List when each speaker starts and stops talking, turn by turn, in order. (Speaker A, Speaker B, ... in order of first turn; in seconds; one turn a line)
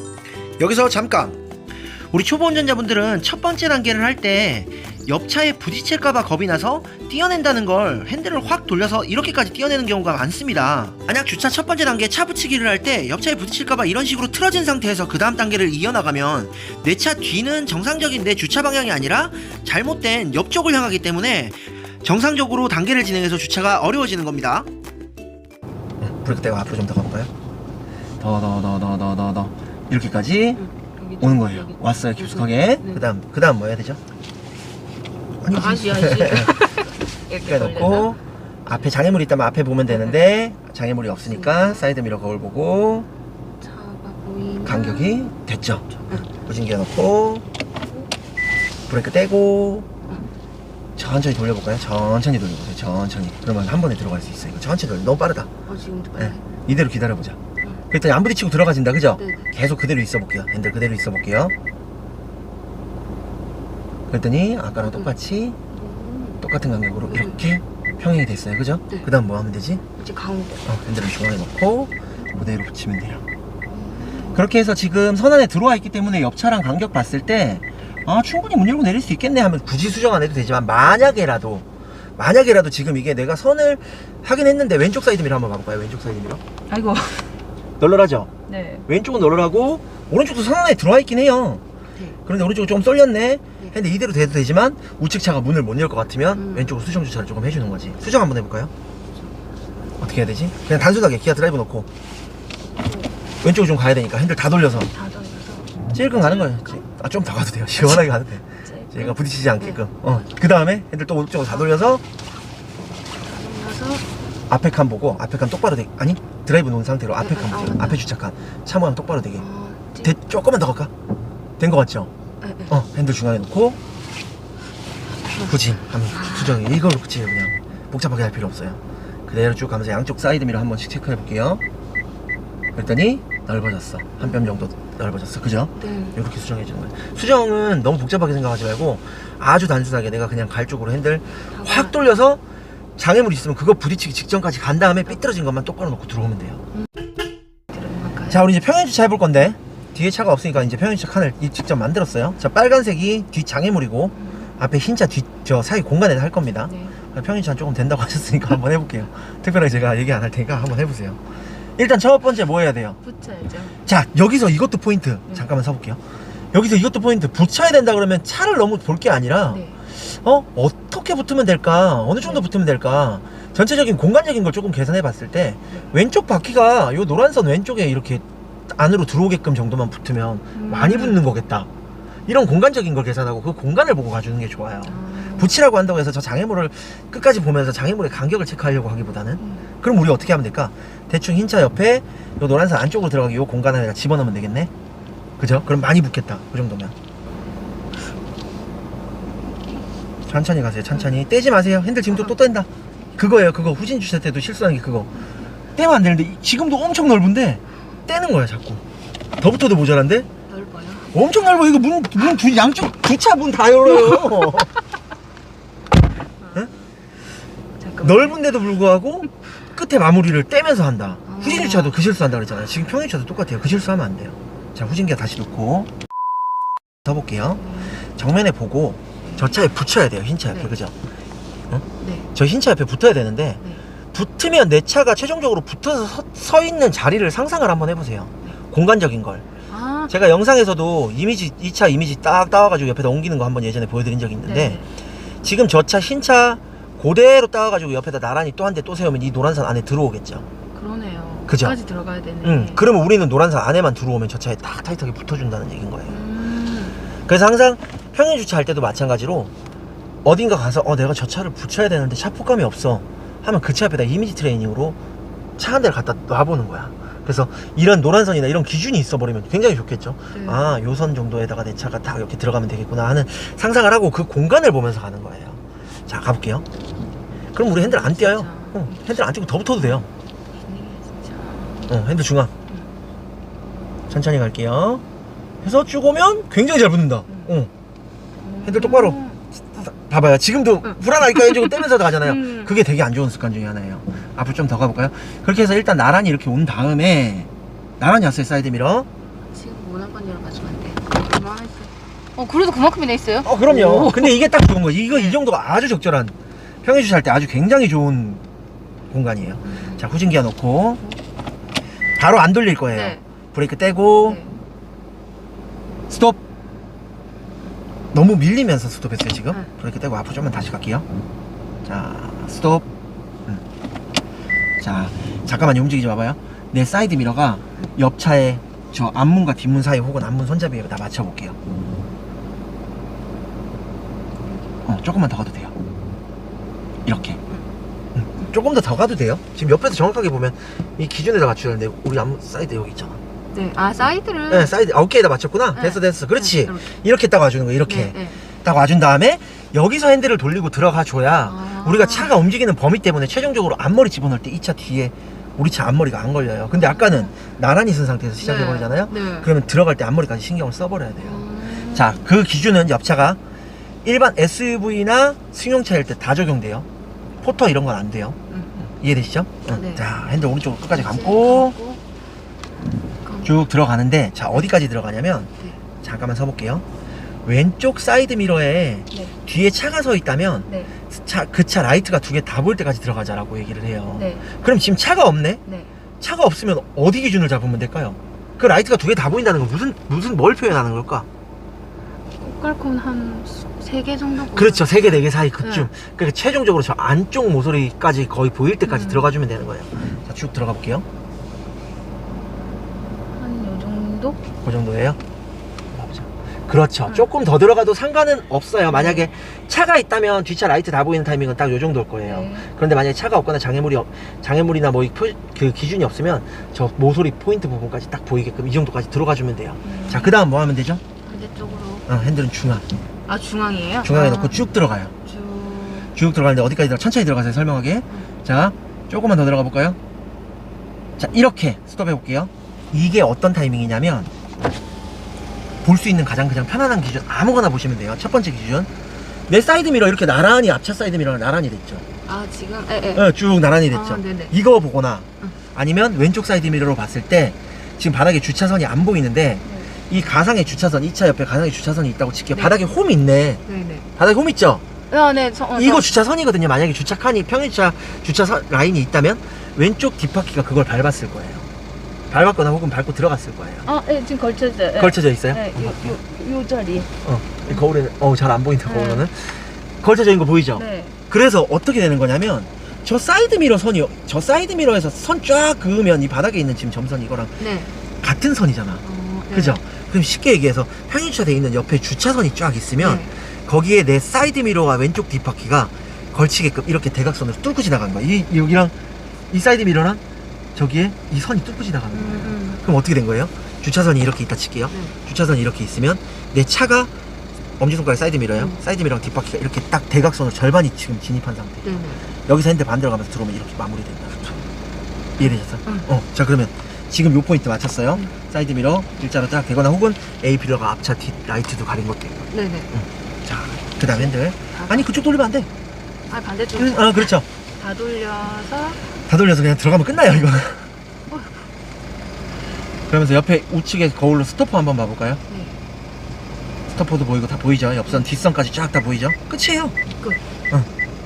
Speaker A: 0.6-1.4
Speaker A: 2.1-24.7
Speaker A: 26.0-27.3
Speaker A: 28.2-30.6
Speaker B: 30.6-33.0
Speaker A: 31.2-34.0
Speaker A: 35.4-36.5
Speaker B: 35.5-38.2
Speaker A: 37.4-43.1
Speaker B: 39.9-40.2
Speaker B: 41.3-41.9
Speaker B: 43.6-45.4
Speaker A: 44.6-47.4
Speaker B: 45.9-46.3
Speaker A: 48.9-49.9
Speaker A: 51.0-55.5
Speaker B: 55.7-56.5
Speaker A: 56.2-57.4
Speaker A: 57.9-61.5
Speaker B: 59.1-59.5
Speaker A: 64.1-65.6
Speaker B: 64.8-65.1
Speaker B: 65.7-66.5
Speaker A: 66.4-69.8
Speaker B: 67.0-67.4
Speaker B: 70.0-70.7
Speaker A: 70.7-73.2
Speaker B: 73.7-74.4
Speaker A: 74.3-81.7
Speaker A: 82.2-86.4
Speaker B: 86.7-87.4
Speaker A: 87.8-88.3
Speaker B: 88.5-88.9
Speaker A: 88.9-91.6
Speaker A: 92.2-98.7
Speaker B: 96.3-96.8
Speaker A: 100.0-101.9
Speaker B: 102.8-103.1
Speaker A: 103.4-104.9
Speaker B: 104.6-106.8
Speaker A: 105.9-112.0
Speaker B: 108.7-110.4
Speaker B: 113.1-114.1
Speaker A: 114.5-119.4
Speaker B: 117.2-118.0
Speaker B: 119.4-120.2
Speaker A: 120.0-120.9
Speaker A: 121.6-122.1
Speaker B: 122.4-122.8
Speaker A: 122.7-123.8
Speaker B: 125.2-126.6
Speaker A: 125.5-131.6
Speaker A: 132.8-142.4
Speaker B: 134.2-134.6
Speaker B: 135.8-136.2
Speaker B: 141.5-142.0
Speaker A: 143.0-146.6
Speaker B: 147.7-148.4
Speaker A: 148.3-161.2
Speaker B: 156.7-157.0
Speaker A: 161.8-163.0
Speaker B: 163.0-163.8
Speaker A: 163.8-166.0
Speaker A: 166.5-181.7
Speaker B: 169.4-169.8
Speaker B: 180.6-181.2
Speaker A: 182.3-194.7
Speaker B: 184.8-185.5
Speaker B: 189.4-189.7
Speaker A: 195.4-196.9
Speaker A: 200.3-205.1
Speaker A: 205.8-208.8
Speaker A: 209.4-210.3
Speaker B: 210.5-211.1
Speaker A: 211.1-214.7
Speaker B: 213.9-214.6
Speaker B: 216.4-216.8
Speaker B: 217.8-218.4
Speaker A: 218.0-225.9
Speaker B: 221.3-222.0
Speaker A: 227.1-230.9
Speaker B: 227.6-228.0
Speaker B: 229.2-229.5
Speaker B: 230.5-230.8
Speaker A: 231.7-233.6
Speaker B: 232.0-232.3
Speaker A: 234.1-239.4
Speaker B: 239.7-240.1
Speaker A: 240.1-244.8
Speaker B: 244.4-244.9
Speaker A: 245.4-250.5
Speaker B: 250.7-252.9
Speaker A: 251.5-251.8
Speaker A: 252.4-256.2
Speaker B: 256.1-257.1
Speaker A: 257.2-259.5
Speaker A: 260.2-265.0
Speaker A: 265.6-276.7
Speaker B: 270.3-270.7
Speaker A: 277.5-280.1
Speaker B: 277.7-279.0
Speaker B: 280.6-281.9
Speaker A: 281.9-282.5
Speaker A: 284.1-285.0
Speaker A: 285.6-287.7
Speaker B: 288.4-289.4
Speaker A: 288.6-289.2
Speaker A: 289.7-299.1
Speaker B: 290.8-292.7
Speaker B: 299.5-304.5
Speaker A: 303.4-308.4
Speaker B: 305.1-305.4
Speaker A: 309.1-311.0
Speaker B: 309.6-310.1
Speaker A: 312.2-314.4
Speaker B: 312.9-313.2
Speaker B: 314.2-314.6
Speaker A: 316.1-316.4
Speaker A: 318.1-321.1
Speaker A: 321.9-322.9
Speaker A: 324.8-331.6
Speaker A: 334.9-335.7
Speaker A: 337.1-337.4
Speaker A: 338.1-343.2
Speaker B: 343.5-344.7
Speaker A: 344.5-363.4
Speaker B: 345.8-346.9
Speaker B: 347.9-348.4
Speaker B: 351.4-352.3
Speaker B: 356.7-357.3
Speaker B: 358.4-359.5
Speaker B: 361.2-362.2
Speaker A: 364.0-366.9
Speaker A: 367.4-368.4
Speaker B: 368.5-368.9
Speaker A: 368.9-371.8
Speaker B: 369.7-370.1
Speaker B: 370.9-372.0
Speaker B: 373.2-373.6
Speaker A: 373.4-375.5
Speaker A: 376.0-376.8
Speaker A: 377.4-385.6
Speaker B: 380.7-381.0
Speaker B: 384.2-384.5
Speaker B: 385.7-385.9
Speaker A: 386.2-391.3
Speaker B: 392.4-395.9
Speaker A: 394.5-401.1
Speaker B: 398.9-399.3
Speaker B: 403.3-404.4
Speaker A: 404.6-405.2
Speaker A: 405.9-421.0
Speaker B: 408.9-409.3
Speaker B: 412.2-412.7
Speaker B: 419.8-420.4
Speaker B: 421.2-422.1
Speaker A: 422.1-422.9
Speaker B: 423.3-424.6
Speaker A: 424.0-425.1
Speaker B: 425.2-426.2
Speaker A: 426.1-430.0
Speaker A: 431.2-434.3
Speaker A: 435.8-438.9
Speaker A: 439.5-442.1
Speaker B: 442.2-443.3
Speaker A: 443.1-453.6
Speaker B: 443.9-444.6
Speaker B: 449.6-450.0
Speaker B: 452.5-452.8
Speaker B: 453.7-454.1
Speaker A: 454.2-454.8
Speaker B: 455.1-456.1
Speaker A: 455.7-461.7
Speaker A: 462.3-463.9
Speaker B: 463.9-467.1
Speaker A: 464.9-466.2
Speaker A: 467.2-477.6
Speaker B: 468.9-469.3
Speaker B: 470.7-471.2
Speaker B: 477.6-477.9
Speaker A: 478.2-488.9
Speaker B: 479.0-479.8
Speaker B: 483.0-483.3
Speaker A: 489.5-490.2
Speaker A: 490.8-497.1
Speaker B: 492.1-492.8
Speaker B: 494.9-495.1
Speaker A: 497.8-501.9
Speaker B: 498.5-498.8
Speaker B: 501.8-502.3
Speaker A: 502.4-504.4
Speaker A: 505.4-515.7
Speaker B: 505.4-506.1
Speaker B: 512.5-512.9
Speaker B: 514.0-515.1
Speaker B: 516.3-519.0
Speaker A: 516.8-517.5
Speaker A: 519.3-520.9
Speaker B: 521.3-521.6
Speaker A: 523.1-525.4
Speaker B: 525.5-525.8
Speaker A: 526.9-530.0